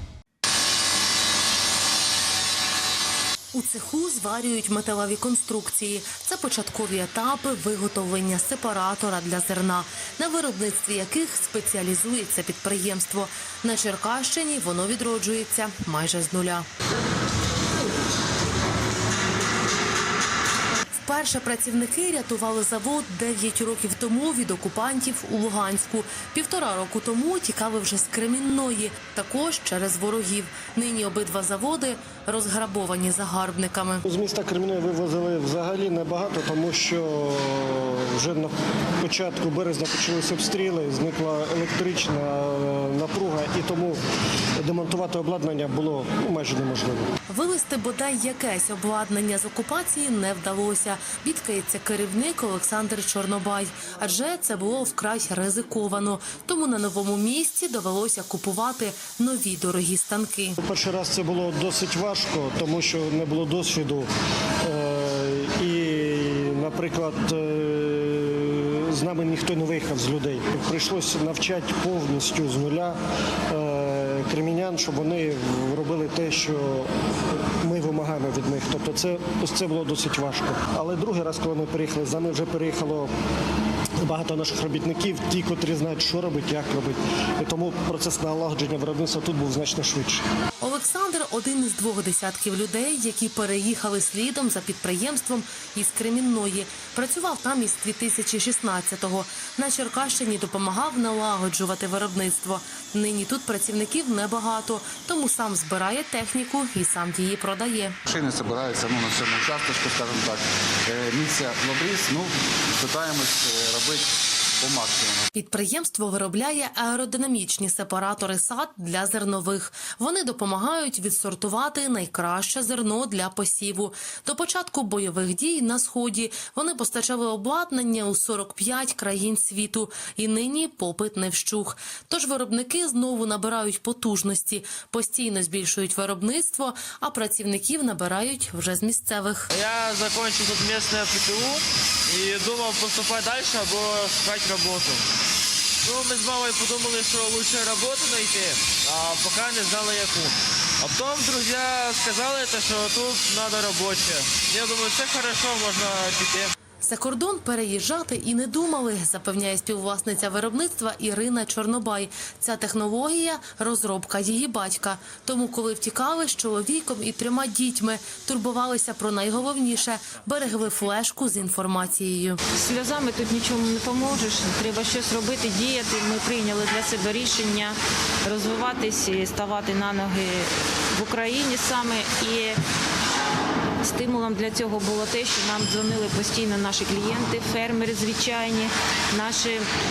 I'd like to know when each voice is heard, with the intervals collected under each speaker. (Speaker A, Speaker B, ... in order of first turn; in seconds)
Speaker A: 3.5-16.7, 21.0-34.0, 47.3-60.6, 90.6-108.0, 115.3-139.5, 156.8-172.4
Speaker B: 34.0-44.0, 44.6-47.1, 60.6-64.1, 64.6-73.0, 73.5-76.9, 77.6-83.1, 84.0-90.2
Speaker C: 108.1-114.0, 114.6-115.2
Speaker D: 139.5-145.0, 145.8-156.5
Speaker E: 172.5-182.6, 183.8-189.7